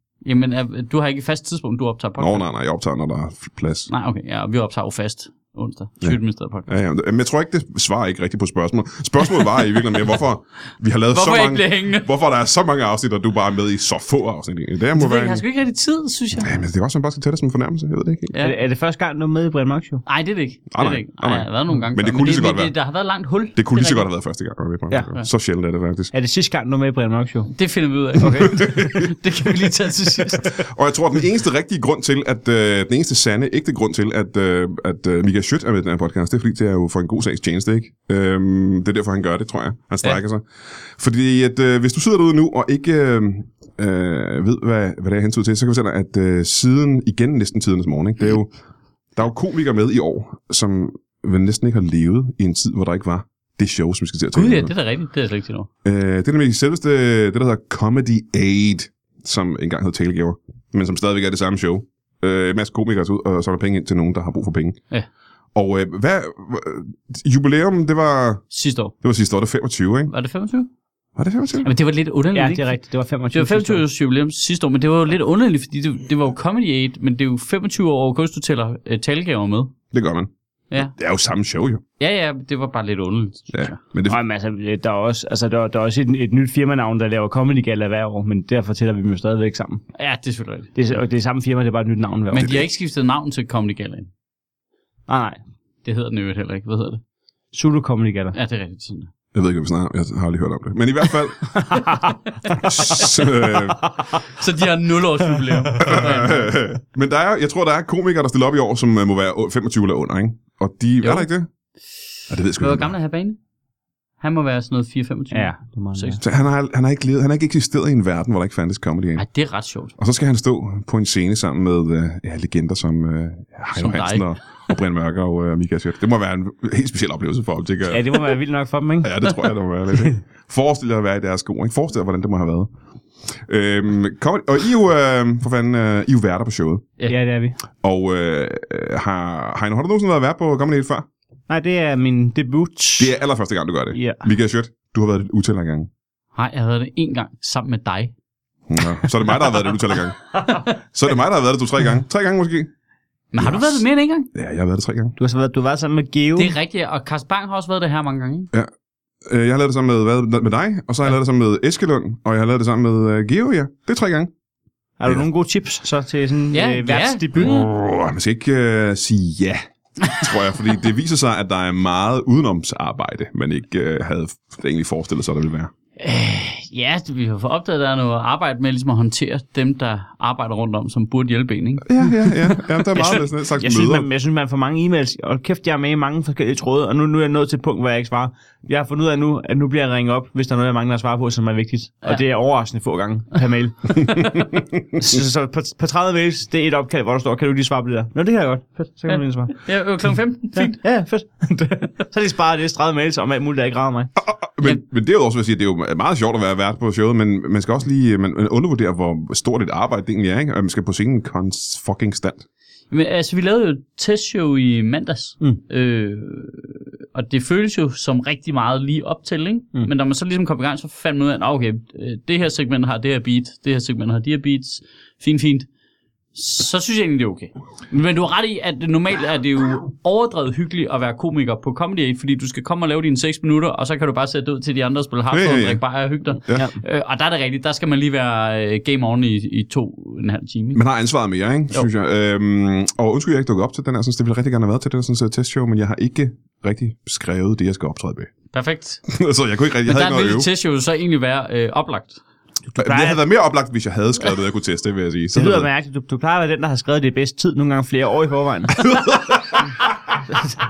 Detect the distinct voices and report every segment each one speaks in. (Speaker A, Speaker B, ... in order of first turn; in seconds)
Speaker A: 0.2-2.5, 3.9-6.7, 11.1-12.1, 14.9-16.5, 18.3-18.6, 20.1-24.1, 27.5-30.6, 54.3-55.7, 68.5-68.9, 70.1-70.7, 71.6-72.8, 73.3-79.7, 82.0-83.8, 90.0-90.9, 92.3-94.1, 95.8-97.0, 98.3-99.1, 102.5-103.1, 104.2-106.5, 111.0-111.3, 112.6-113.4, 114.2-116.2, 119.2-119.9, 123.8-124.2, 146.3-148.1, 153.3-154.3, 156.4-158.5, 166.5-167.5, 176.0-181.8, 199.1-200.8, 212.9-225.7, 226.3-240.8, 248.5-249.0, 249.8-252.2
Speaker B: 2.2-3.9, 6.0-15.4, 16.4-18.3, 20.7-22.7, 23.6-26.1, 28.3-29.1, 30.6-40.4, 41.0-48.5, 49.1-54.7, 55.8-64.8, 65.5-68.4, 69.0-70.1, 71.2-71.7, 79.9-81.8, 83.5-84.2, 92.4-92.7, 99.3-101.6, 102.5-103.8, 105.8-111.5, 112.3-112.9, 116.2-119.2, 120.0-128.2, 129.0-132.7, 133.5-136.9, 137.8-141.1, 143.0-145.9, 148.7-150.2, 150.8-152.7, 153.4-155.1, 159.3-164.3, 167.4-175.7, 181.8-184.1, 204.2-212.5, 235.3-235.8, 240.8-248.3, 249.1-250.5, 252.8-255.7, 258.8-259.6
Speaker C: 18.4-20.0, 26.1-27.5, 28.2-29.0, 30.0-30.4, 72.3-73.8, 84.1-89.8, 90.8-92.5, 95.1-95.4, 97.5-98.4, 101.7-102.1, 115.3-116.2, 127.9-129.2, 137.1-137.6, 141.5-143.1, 143.9-144.2, 155.2-156.6, 165.0-167.7, 182.2-199.6, 200.6-204.1, 252.8-253.2, 255.3-258.9